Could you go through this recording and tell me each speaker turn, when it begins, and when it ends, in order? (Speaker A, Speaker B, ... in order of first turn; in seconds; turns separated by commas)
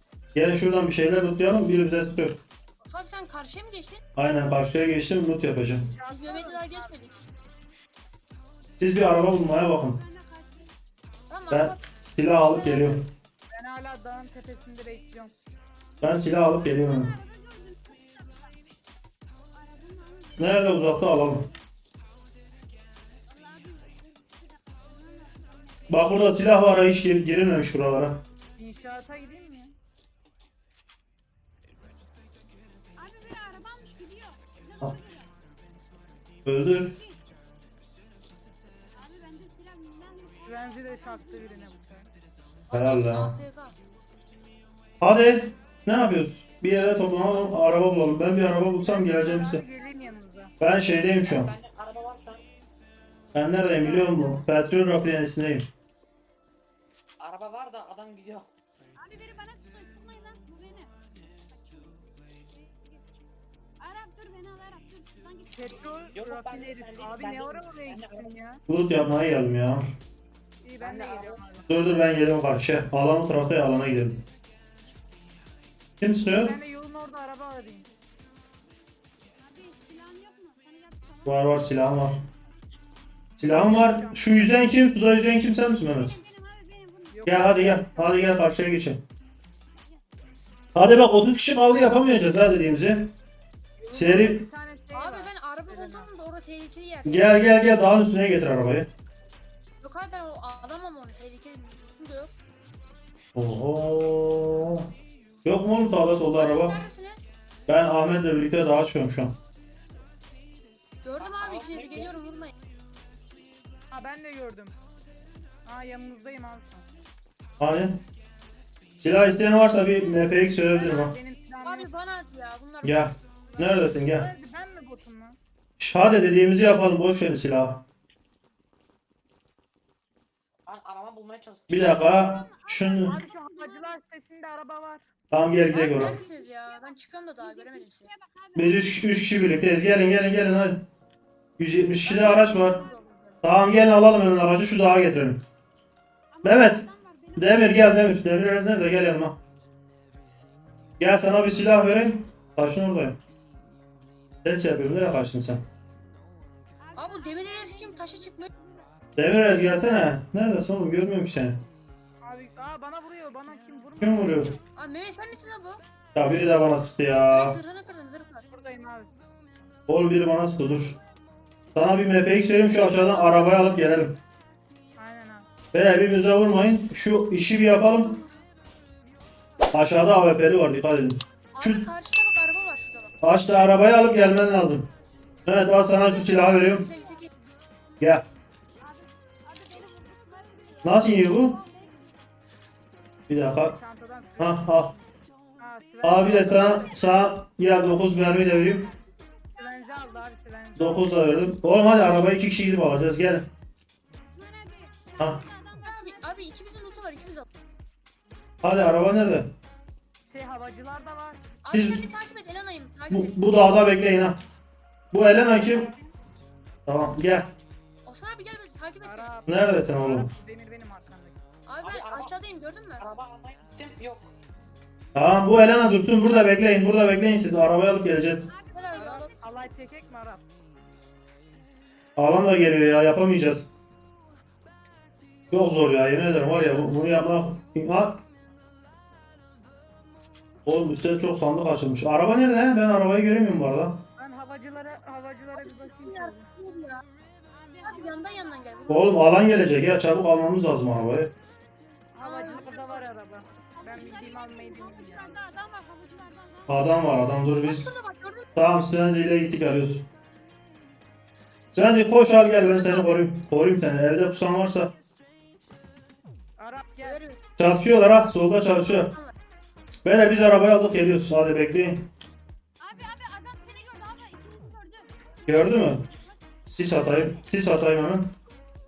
Speaker A: 0.3-2.4, Speaker B: 2.9-4.0, Speaker A: 4.2-5.9, Speaker C: 5.9-6.9, Speaker B: 6.1-7.2, Speaker A: 8.8-10.0, Speaker D: 10.0-10.7, Speaker B: 11.3-13.0, Speaker A: 11.5-13.1, Speaker C: 13.5-15.3, Speaker A: 16.0-17.2, Speaker D: 17.0-18.6, Speaker D: 19.5-20.7, Speaker A: 20.4-21.5, Speaker D: 23.3-25.8, Speaker A: 25.9-28.2, Speaker C: 28.6-29.8, Speaker D: 33.0-35.3, Speaker A: 36.4-37.0, Speaker D: 38.9-41.5, Speaker C: 40.4-42.1, Speaker B: 42.7-43.8, Speaker A: 42.7-43.3, Speaker A: 45.0-49.6, Speaker C: 48.8-50.5, Speaker A: 50.6-51.5, Speaker E: 51.2-52.5, Speaker A: 53.3-55.7, Speaker E: 57.2-58.5, Speaker D: 59.0-60.9, Speaker D: 63.8-65.8, Speaker C: 65.5-68.6, Speaker E: 66.1-68.2, Speaker A: 68.7-69.9, Speaker C: 70.6-71.7, Speaker E: 70.8-71.4, Speaker A: 71.7-74.2, Speaker A: 76.0-76.6, Speaker C: 76.3-77.9, Speaker D: 79.4-81.2, Speaker A: 81.2-82.3, Speaker A: 83.4-86.1, Speaker C: 83.4-84.5, Speaker D: 86.1-87.1, Speaker C: 87.1-88.3, Speaker A: 87.2-89.0, Speaker A: 90.8-93.1, Speaker C: 93.8-96.1, Speaker A: 93.9-94.5, Speaker B: 94.9-97.5, Speaker A: 97.0-98.9, Speaker B: 99.8-102.3, Speaker A: 103.3-104.9, Speaker A: 105.4-106.8, Speaker B: 106.3-107.3, Speaker A: 107.7-109.3, Speaker B: 111.0-112.5, Speaker E: 111.2-112.1, Speaker C: 113.9-114.8, Speaker C: 115.6-116.9, Speaker A: 117.6-118.0, Speaker A: 119.0-121.1, Speaker C: 120.7-121.9, Speaker B: 121.6-123.2, Speaker A: 122.8-124.3, Speaker C: 123.5-125.4, Speaker A: 125.8-127.8, Speaker E: 130.7-132.3, Speaker A: 131.7-133.2, Speaker D: 132.4-132.9, Speaker C: 133.1-135.0, Speaker D: 133.4-133.9, Speaker A: 135.3-136.2, Speaker B: 135.7-138.1, Speaker D: 136.4-136.8, Speaker D: 137.5-138.7, Speaker A: 138.5-140.8, Speaker A: 141.6-142.8, Speaker B: 142.0-143.4, Speaker A: 143.4-145.4, Speaker D: 146.4-147.8, Speaker A: 146.4-146.8, Speaker A: 147.3-149.4, Speaker A: 151.0-153.2, Speaker A: 154.4-155.7, Speaker D: 156.9-158.9, Speaker B: 156.9-158.5, Speaker A: 159.2-161.7, Speaker C: 162.2-164.5, Speaker A: 164.0-164.6, Speaker B: 164.7-165.8, Speaker A: 166.1-167.6, Speaker B: 167.3-168.5, Speaker C: 168.5-169.1, Speaker A: 169.9-171.0, Speaker A: 171.7-174.2, Speaker B: 172.7-173.8, Speaker C: 175.0-175.5, Speaker A: 175.7-178.2, Speaker A: 179.7-181.9, Speaker B: 181.5-183.2, Speaker A: 183.2-184.9, Speaker A: 185.4-186.9, Speaker B: 185.7-187.3, Speaker A: 188.0-188.2, Speaker D: 188.8-192.0, Speaker A: 190.8-191.6, Speaker A: 193.3-193.8, Speaker C: 193.7-194.8, Speaker A: 194.4-194.9, Speaker C: 195.6-196.5, Speaker A: 196.0-198.9, Speaker B: 196.2-197.1, Speaker C: 199.5-201.2, Speaker A: 200.8-203.5, Speaker D: 204.3-206.2, Speaker B: 205.8-207.5, Speaker A: 208.6-209.5, Speaker C: 210.3-211.4, Speaker B: 211.6-213.4, Speaker A: 211.7-212.0, Speaker A: 213.1-214.4, Speaker A: 215.1-215.9, Speaker C: 215.2-216.1, Speaker A: 216.9-217.5, Speaker B: 218.0-219.3, Speaker C: 219.0-221.4, Speaker A: 219.5-220.3, Speaker B: 221.7-223.1, Speaker E: 221.8-222.4, Speaker E: 223.0-224.3, Speaker A: 225.1-228.5, Speaker B: 226.2-226.5, Speaker B: 228.7-229.4, Speaker C: 228.9-230.5, Speaker A: 232.2-233.7, Speaker A: 235.5-238.2, Speaker B: 236.5-237.1, Speaker A: 240.7-244.0, Speaker C: 244.2-246.5, Speaker B: 245.6-247.0, Speaker D: 247.5-248.7, Speaker B: 247.8-249.2, Speaker A: 248.9-251.3, Speaker C: 252.2-255.4, Speaker B: 252.2-253.0, Speaker D: 253.7-256.8, Speaker A: 256.7-257.9, Speaker B: 257.6-258.5, Speaker A: 258.6-260.1, Speaker A: 261.7-264.9, Speaker B: 262.5-263.2, Speaker C: 266.6-267.2, Speaker B: 267.0-267.4, Speaker A: 267.6-269.1, Speaker B: 268.9-269.3, Speaker A: 270.0-272.1, Speaker D: 272.8-275.1, Speaker A: 275.5-276.1, Speaker A: 276.7-278.3